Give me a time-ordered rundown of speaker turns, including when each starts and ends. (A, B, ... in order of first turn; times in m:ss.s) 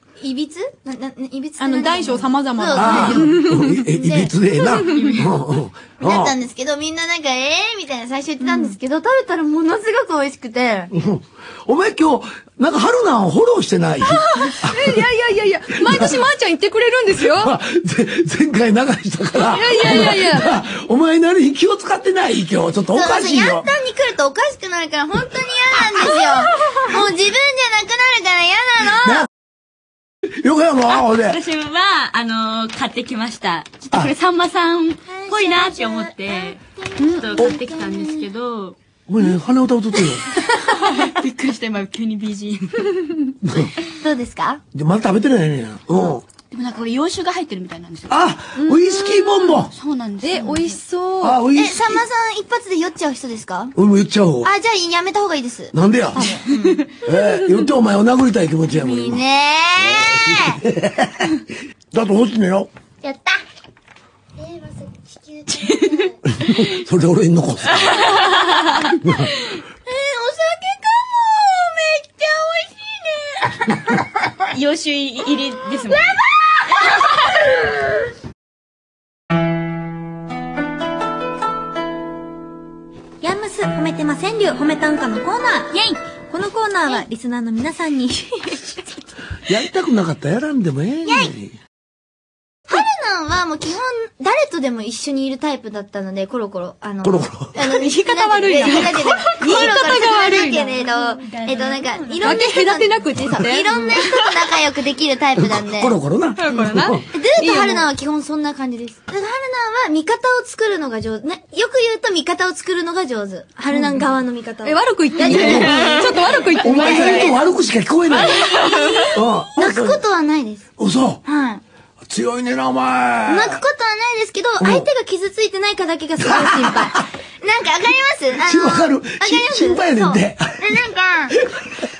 0:00.2-0:04.3 A
0:01.6-0:03.5 B
0:02.7-0:06.3 C
0:04.6-0:05.4 D
0:06.0-0:10.9 A
0:10.9-0:15.1 C
0:14.1-0:17.5 B
0:15.7-0:16.2 C
0:17.2-0:23.7 C
0:19.4-0:20.5 B
0:22.9-0:29.2 A
0:30.3-0:31.4 C
0:30.9-0:38.8 D
0:35.1-0:38.2 A
0:39.1-0:40.3 C
0:40.2-0:43.3 D
0:43.4-0:43.8 C
0:44.0-0:44.6 A
0:44.7-0:46.2 C
0:46.5-0:48.1 D
0:48.1-0:49.7 C
0:48.6-0:49.5 B
0:49.5-0:50.8 D
0:50.2-0:51.4 B
0:51.2-0:52.0 C
0:51.5-0:53.7 A
0:53.7-0:54.5 C
0:54.4-0:56.8 A
0:55.7-0:56.4 C
0:56.6-0:56.8 D
0:57.0-0:59.2 C
0:58.7-1:00.6 A
0:59.8-1:01.4 C
1:01.9-1:02.7 C
1:03.0-1:03.4 A
1:04.4-1:06.2 A
1:06.2-1:08.2 C
1:08.8-1:09.3 C
1:09.8-1:14.1 A
1:14.5-1:16.1 D
1:15.9-1:16.6 A
1:23.2-1:28.8 E
1:25.7-1:26.0 D
1:29.5-1:31.6 C
1:31.0-1:31.3 A
1:32.7-1:45.9 A
1:37.0-1:37.6 C
1:37.7-1:40.7 B
1:40.7-1:42.3 D
1:42.2-1:44.2 B
1:45.4-1:47.1 C
1:46.4-1:47.8 B
1:47.1-1:57.4 A
1:54.6-1:57.3 B
1:55.2-1:56.2 D
1:55.2-1:56.0 C
1:56.6-1:58.5 C
1:58.2-1:59.1 D
1:59.0-2:00.0 C
1:59.6-2:00.6 A
2:00.8-2:01.2 C
2:01.2-2:01.6 A
2:02.1-2:03.6 C
2:03.3-2:11.4 A
2:04.6-2:04.8 C
2:06.2-2:07.0 C
2:08.4-2:10.6 C
2:11.4-2:11.7 C